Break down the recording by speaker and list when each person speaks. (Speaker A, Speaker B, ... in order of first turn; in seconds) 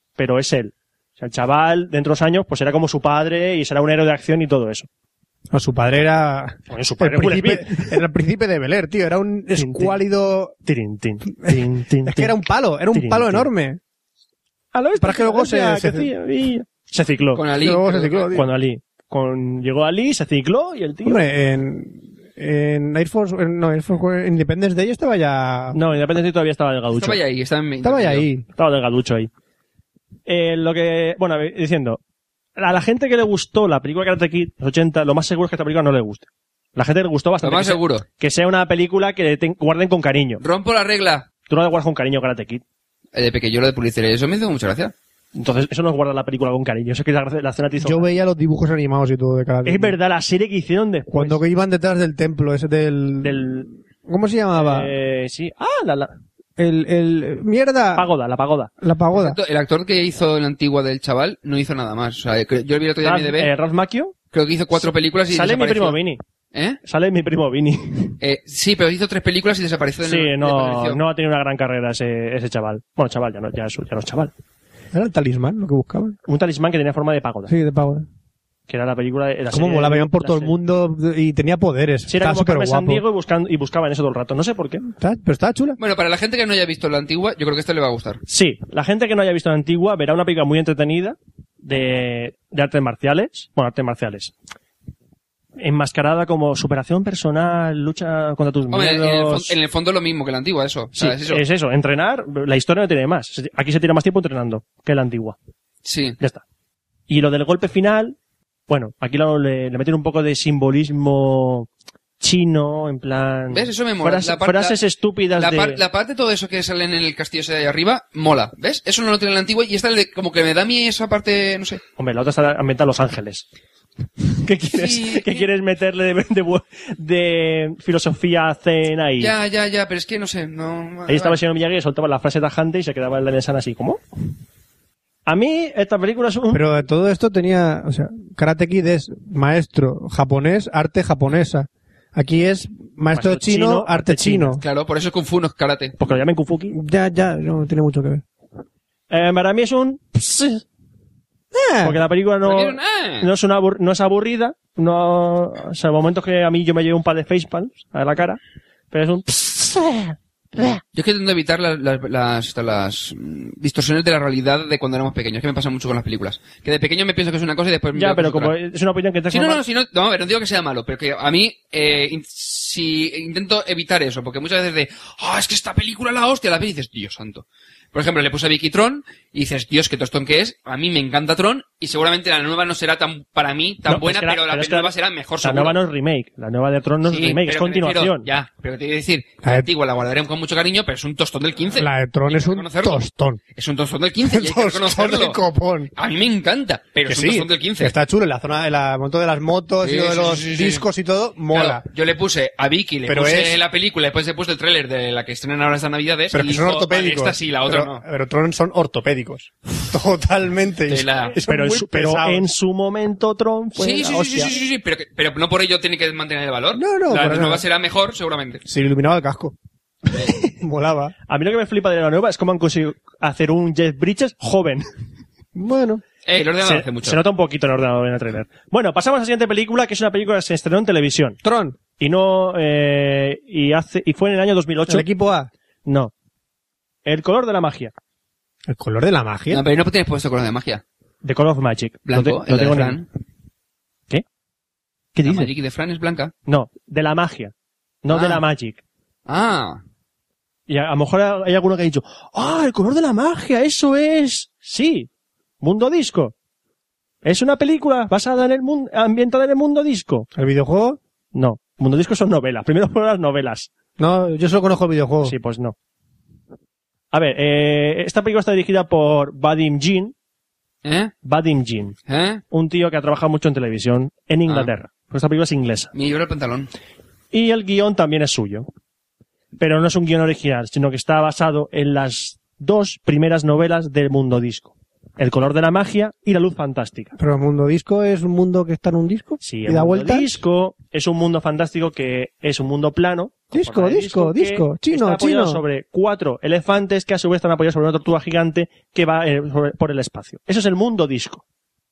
Speaker A: 0.2-4.9, 6.7-8.0, 9.6-10.0, 10.7-12.4, 12.9-13.5, 14.7-17.4, 18.3-21.2, 25.7-27.2, 28.6-29.3, 30.3-32.0, 32.6-40.4, 41.5-42.6, 45.4-48.1, 49.6-51.4, 53.2-53.7, 54.5-56.2, 58.0-58.7, 63.0-64.1, 65.3-66.2, 66.8-68.2, 70.0-74.3, 76.3-77.5, 78.7-80.6, 82.1-84.9, 88.3-94.3, 95.6-99.5, 101.0-105.4, 107.1-108.2, 108.7-111.7, 112.2-115.8, 122.0-123.5, 124.4-129.3, 131.1-134.0, 135.3-136.7, 143.1-144.6, 146.0-146.8, 149.1-150.6, 151.8-158.4, 158.9-160.8, 167.9-169.6, 183.9-188.3, 211.3-214.5, 221.3-224.9, 226.6-231.4, 232.0-235.1, 235.9-236.1, 237.1-237.9, 241.2-243.0, 245.2-245.5, 246.5-247.5, 248.0-248.8, 250.7-255.1, 255.6-256.3, 257.2-260.3, 261.3-263.7, 265.2-265.8, 267.1-270.1, 271.2-272.0, 272.5-275.9, 277.3-278.7, 279.6-287.1, 289.4-301.4
Speaker B: 5.5-10.6, 11.3-13.8, 15.0-16.1, 17.6-18.5, 21.0-25.8, 27.8-28.5, 47.8-50.0, 51.1-54.9, 56.6-58.1, 58.8-59.4, 74.9-76.2, 77.5-78.1, 79.5-83.0, 85.0-85.8, 136.5-144.6, 146.7-148.2, 151.5-152.0, 189.4-189.7, 191.8-193.4, 194.3-195.9, 197.1-201.8, 203.1-203.6, 206.3-212.5, 216.7-217.7, 218.7-219.6, 220.3-221.1, 225.6-226.0, 231.4-231.8, 234.9-235.5, 238.7-239.6, 260.3-261.0, 264.0-265.4, 287.2-290.3, 293.5-295.6
Speaker C: 17.4-18.3, 26.9-28.3, 37.4-38.1, 40.4-41.3, 43.1-44.9, 59.1-63.5, 64.3-66.0, 66.5-66.8, 68.2-71.0, 85.8-88.2, 98.7-101.4, 105.8-106.2, 113.5-114.8, 115.3-121.8, 124.7-125.5, 129.2-131.4, 144.6-146.0, 152.4-153.3, 160.9-168.5, 169.3-185.8, 187.1-193.0, 193.6-195.4, 196.0-197.9, 199.8-200.9, 201.5-208.0, 210.9-211.4, 213.8-218.6, 226.3-227.2, 239.5-240.8, 242.1-243.1, 245.3-246.3, 248.1-248.4, 249.3-249.8, 270.8-271.1, 272.1-272.4, 275.9-276.7